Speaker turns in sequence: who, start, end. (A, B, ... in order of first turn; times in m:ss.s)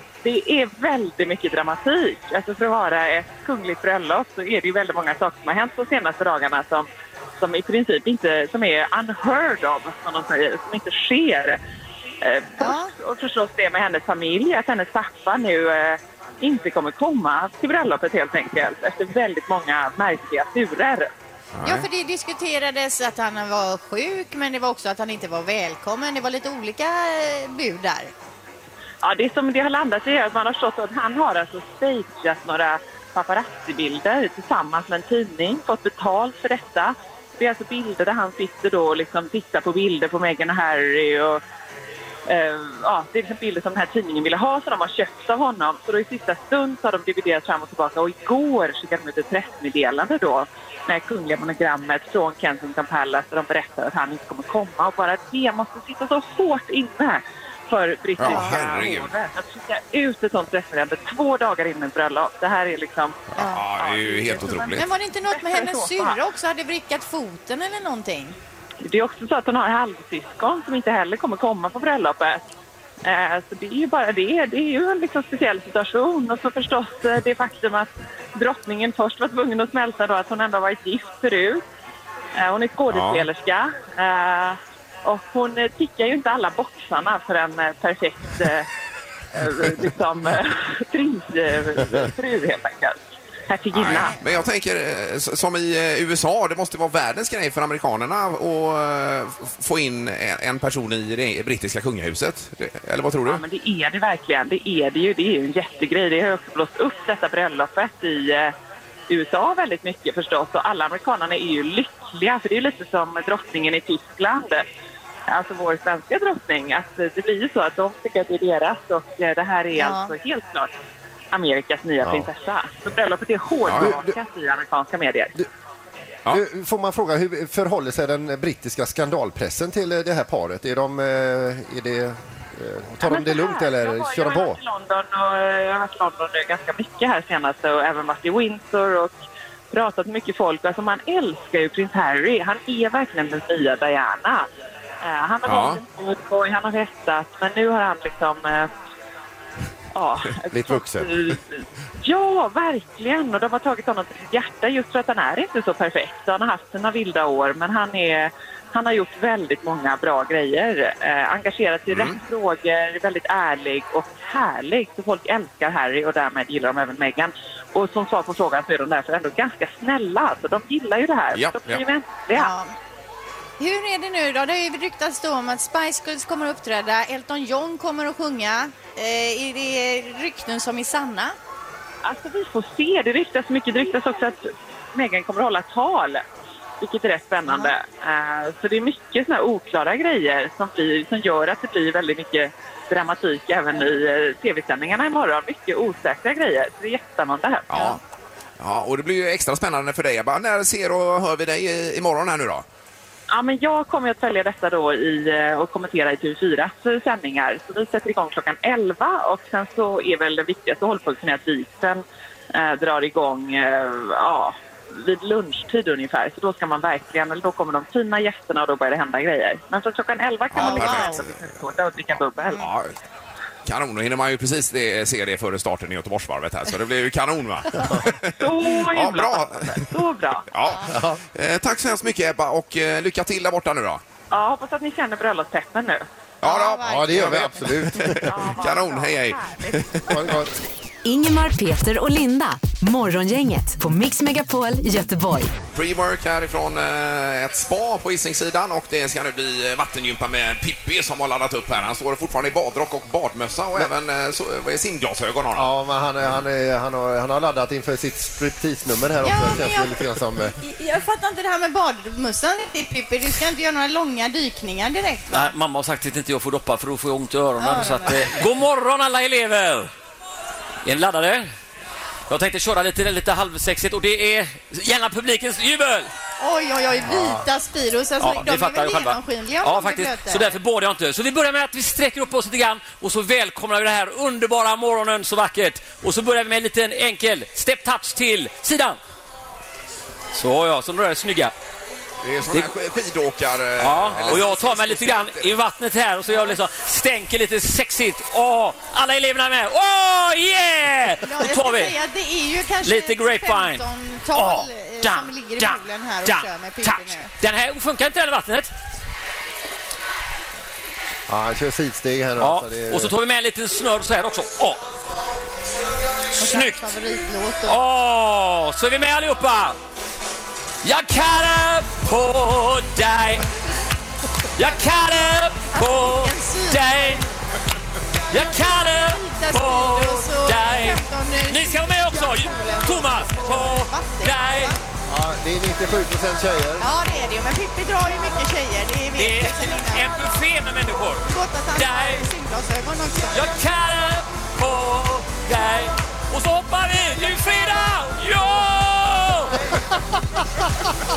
0:00.2-0:06.9 A
0:07.4-0:11.6 A
0:12.2-0:21.1 A
0:12.6-0:12.9 B
0:21.6-0:21.9 C
0:21.6-0:28.1 B
0:29.0-0:41.4 A
0:42.3-1:06.2 A
0:58.2-0:59.1 C
1:03.4-1:04.9 C
1:03.4-1:03.6 B
1:04.7-1:08.4 B
1:08.8-1:12.5 A
1:13.0-1:21.6 A
1:22.4-1:28.7 A
1:22.9-1:23.3 C
1:29.3-1:33.0 A
1:33.5-1:34.2 A
1:33.7-1:43.4 C
1:43.2-1:48.5 A
1:49.1-1:54.6 A
1:55.3-2:00.7 A
1:59.8-2:00.1 B
2:01.3-2:05.4 A
2:02.0-2:02.3 D
2:03.6-2:04.0 C
2:03.7-2:04.1 D
2:06.3-2:14.6 D
2:13.0-2:19.2 A
2:19.7-2:24.5 A
2:25.0-2:28.7 A
2:25.4-2:25.8 C
2:29.9-2:52.5 A
2:30.5-2:31.1 D
2:41.9-2:42.2 C
2:51.3-2:51.8 C
2:52.3-2:52.7 B
2:53.6-3:01.4 B
3:02.0-3:06.2 A
3:06.8-3:18.0 A
3:07.5-3:07.7 B
3:17.7-3:18.0 C
3:18.6-3:22.6 C
3:23.3-3:42.6 A
3:40.6-3:41.2 B
3:40.8-3:41.3 C
3:42.5-3:42.9 C
3:43.7-3:49.9 C
3:48.4-3:50.5 A
3:50.5-3:54.0 C
3:50.9-3:51.2 D
3:54.3-3:56.1 A
3:56.4-4:00.4 C
3:56.4-3:57.6 B
3:56.8-3:58.3 D
3:58.3-3:59.4 A
4:00.1-4:00.5 D
4:01.0-4:05.5 E
4:05.7-4:15.7 C
4:15.6-4:20.6 D
4:19.2-4:20.0 B
4:20.6-4:25.5 B
4:25.3-4:29.9 F
4:27.6-4:28.4 B
4:30.8-4:31.5 F
4:32.3-4:36.1 F
4:36.4-4:40.6 B
4:38.2-4:49.0 F
4:50.3-4:51.5 F
4:52.2-4:55.6 C
4:53.8-5:02.0 F
5:01.2-5:07.3 B
5:02.8-5:08.7 F
5:11.3-5:13.1 D
5:12.4-5:14.8 F
5:16.4-5:16.9 F
5:16.4-5:17.8 B
5:17.6-5:19.8 F
5:20.8-5:23.4 F
5:24.6-5:27.2 F
5:25.7-5:27.2 B
5:28.3-5:34.8 F
5:28.3-5:34.8 B
5:35.1-5:36.9 D
5:36.8-5:40.3 B
5:39.2-5:42.3 F
5:41.3-5:43.6 B
5:43.3-5:49.6 F